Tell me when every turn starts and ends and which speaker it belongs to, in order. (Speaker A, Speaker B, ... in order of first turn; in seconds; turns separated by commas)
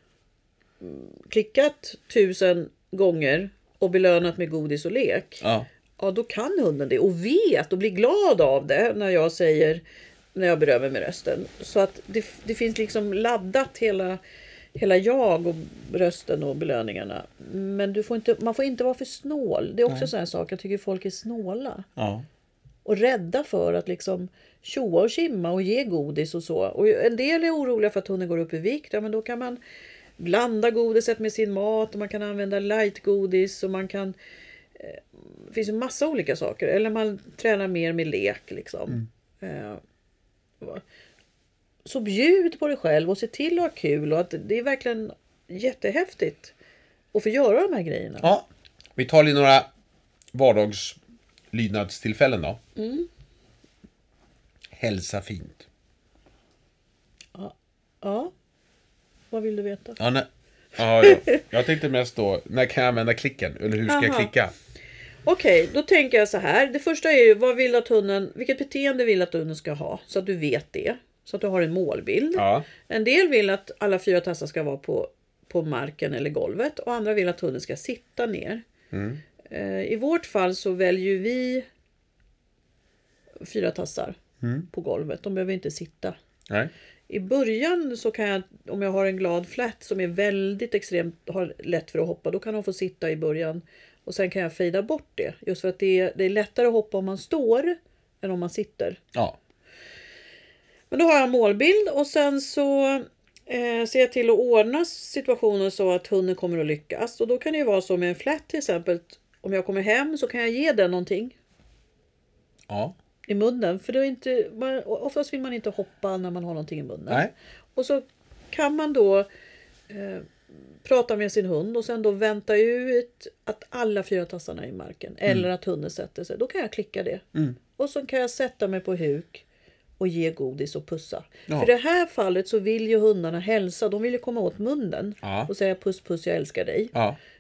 Speaker A: 0.8-5.4, Speaker B: 5.4-5.7, Speaker A: 6.0-9.8, Speaker A: 10.3-14.2, Speaker A: 14.8-21.9, Speaker B: 22.0-22.3, Speaker A: 22.9-29.6, Speaker A: 30.2-34.1, Speaker A: 34.8-39.8, Speaker A: 41.9-46.5, Speaker A: 47.1-48.3, Speaker B: 48.2-49.7, Speaker B: 50.3-51.0, Speaker B: 51.5-52.6, Speaker A: 52.8-53.1, Speaker B: 54.7-55.7, Speaker A: 57.4-58.3, Speaker A: 59.3-60.0, Speaker B: 60.0-64.5, Speaker A: 61.0-61.4, Speaker A: 63.9-64.3, Speaker A: 65.3-78.6, Speaker B: 72.4-72.7, Speaker B: 78.9-79.2, Speaker A: 79.5-81.7, Speaker A: 83.4-86.2, Speaker B: 84.4-84.7, Speaker A: 87.1-99.0, Speaker A: 100.9-111.3, Speaker B: 112.7-113.0, Speaker A: 113.3-119.3, Speaker A: 119.9-120.3, Speaker A: 120.8-127.2, Speaker A: 127.8-129.4, Speaker A: 130.0-136.9, Speaker B: 135.2-135.5